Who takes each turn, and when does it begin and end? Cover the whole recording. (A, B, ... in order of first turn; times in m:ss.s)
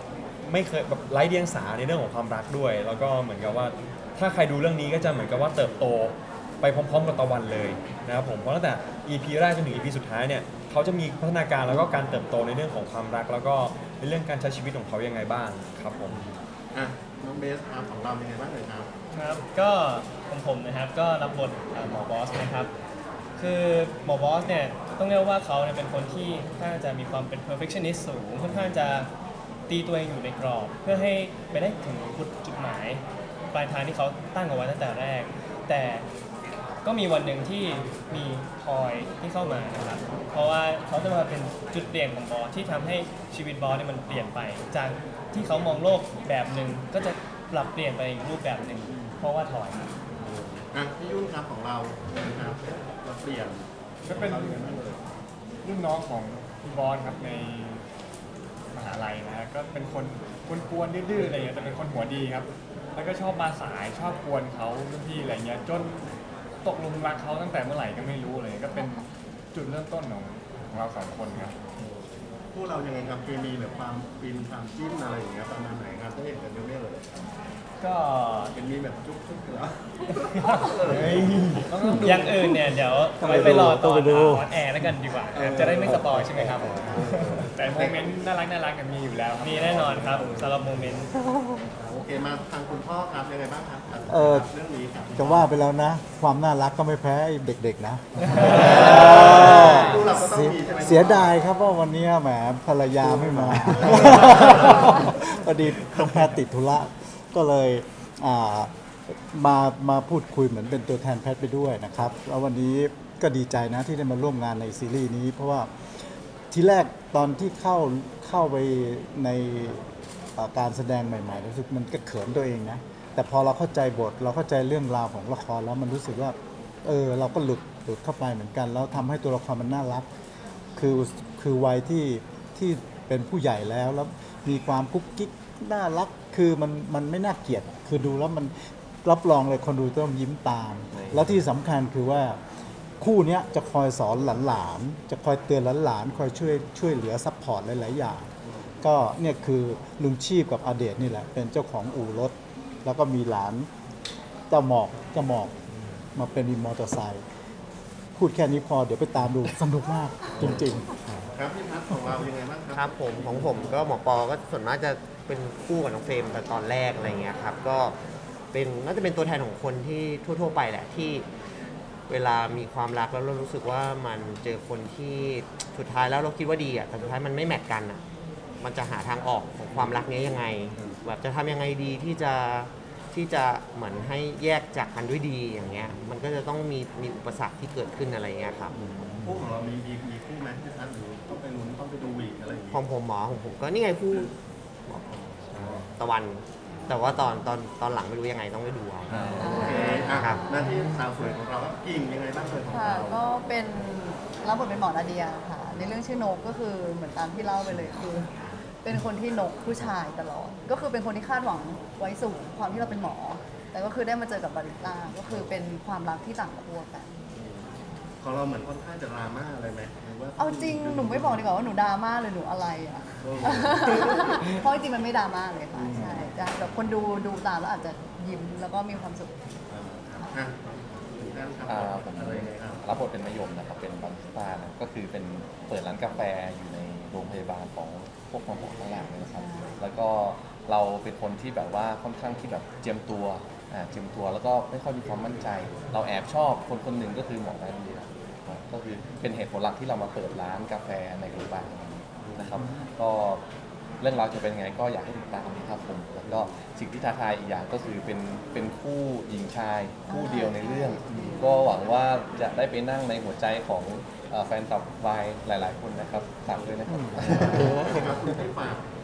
0:00.4-0:16.2 A
0:16.1-0:18.9 B
0:19.1-0:22.7 C
0:23.4-0:29.1 C
0:29.7-0:36.1 C
0:36.8-0:49.9 C
0:48.9-0:49.2 B
0:50.2-0:55.0 B
0:54.1-0:54.8 D
0:55.6-0:57.8 D
0:58.7-1:06.0 D
1:06.6-1:11.6 D
1:12.5-1:17.3 B
1:17.8-1:18.6 C
1:18.5-1:21.6 B
1:20.4-1:20.7 C
1:21.0-1:21.4 A
1:21.7-1:22.4 D
1:22.0-1:27.4 C
1:22.1-1:22.5 E
1:23.2-1:24.9 E
1:25.4-1:26.2 B
1:25.8-1:27.0 E
1:26.9-1:28.0 B
1:27.4-1:30.2 D
1:29.4-1:31.1 C
1:30.0-1:30.6 B
1:31.7-1:35.5 B
1:34.1-1:34.5 E
1:35.2-1:55.7 E
1:38.4-1:41.3 B
1:43.1-1:45.0 B
1:56.5-1:59.8 E
2:00.4-2:10.1 E
2:10.8-2:22.4 E
2:20.9-2:21.4 F
2:23.0-2:28.3 E
2:28.8-2:33.7 E
2:34.5-2:35.6 E
2:36.2-2:37.2 E
2:38.2-2:41.2 E
2:41.3-2:43.8 B
2:42.7-2:48.0 G
2:48.5-2:51.3 G
2:52.1-2:58.0 G
2:58.6-3:08.7 G
2:59.7-3:01.0 B
3:08.7-3:12.9 B
3:12.7-3:14.3 G
3:14.9-3:20.5 G
3:15.5-3:15.9 B
3:19.2-3:23.2 B
3:19.4-3:20.7 H
3:22.7-3:37.1 H
3:37.4-3:37.7 B
3:38.2-3:41.5 B
3:40.4-3:49.3 H
3:43.2-3:44.4 B
3:49.7-3:53.0 B
3:51.7-4:13.4 F
3:59.3-3:59.8 H
4:14.0-4:28.1 F
4:20.1-4:21.7 H
4:26.9-4:27.7 E
4:27.3-4:28.8 B